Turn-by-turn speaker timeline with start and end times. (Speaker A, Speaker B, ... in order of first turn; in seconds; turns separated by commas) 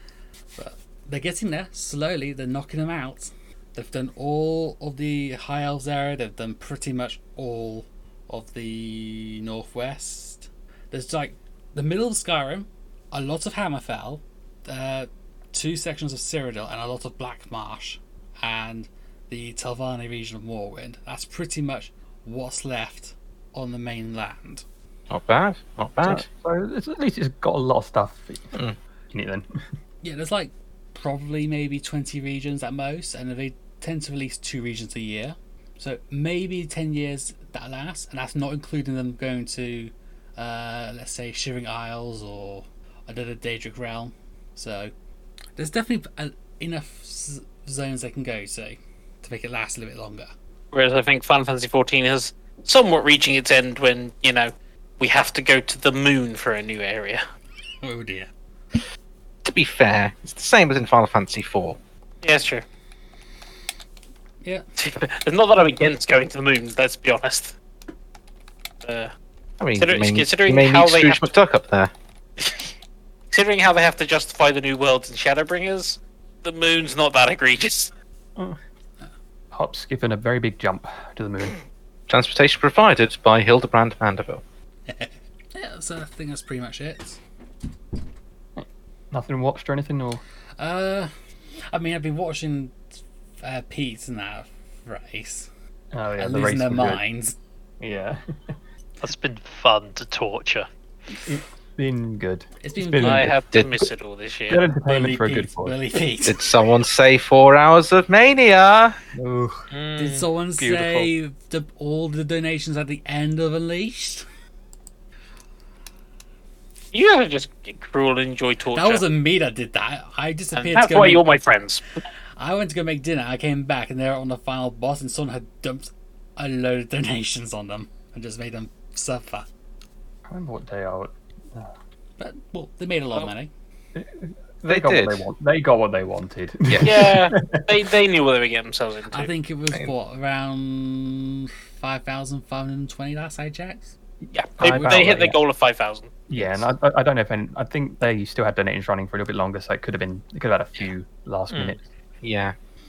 Speaker A: 0.6-24.6, Speaker B: 25.1-26.2, Speaker C: 26.0-28.5, Speaker C: 29.1-29.5, Speaker A: 30.0-44.9, Speaker A: 45.6-50.3, Speaker D: 50.7-57.2, Speaker A: 57.8-58.3, Speaker B: 59.4-61.8, Speaker D: 62.2-62.6, Speaker D: 64.8-67.5, Speaker D: 68.8-69.1, Speaker B: 69.6-71.9, Speaker D: 69.8-71.2, Speaker D: 72.4-72.7, Speaker D: 73.3-77.9, Speaker C: 79.5-81.6, Speaker B: 82.1-84.4, Speaker A: 84.9-87.2, Speaker C: 88.5-90.2, Speaker A: 90.6-91.1, Speaker A: 91.7-92.8, Speaker A: 93.4-95.5, Speaker C: 95.9-97.0, Speaker A: 96.2-97.3, Speaker C: 97.8-98.5, Speaker E: 99.0-100.7, Speaker C: 101.2-103.4, Speaker A: 102.6-103.3, Speaker D: 103.0-104.6, Speaker B: 103.5-103.8, Speaker C: 104.5-106.0, Speaker A: 104.8-106.4, Speaker B: 106.2-109.0, Speaker C: 109.1-109.6, Speaker E: 109.7-110.3, Speaker A: 110.0-114.2, Speaker C: 110.6-111.1, Speaker D: 116.9-119.0, Speaker A: 118.7-121.2, Speaker D: 120.5-121.8, Speaker A: 122.4-129.5, Speaker C: 130.3-131.7, Speaker A: 132.2-133.5, Speaker C: 133.9-137.8, Speaker B: 134.7-135.2, Speaker B: 136.7-137.1, Speaker D: 136.8-139.3, Speaker A: 139.1-143.9, Speaker D: 144.3-146.1, Speaker C: 144.6-145.4, Speaker A: 144.6-145.0, Speaker C: 146.3-151.8, Speaker E: 151.5-151.8, Speaker B: 152.2-152.6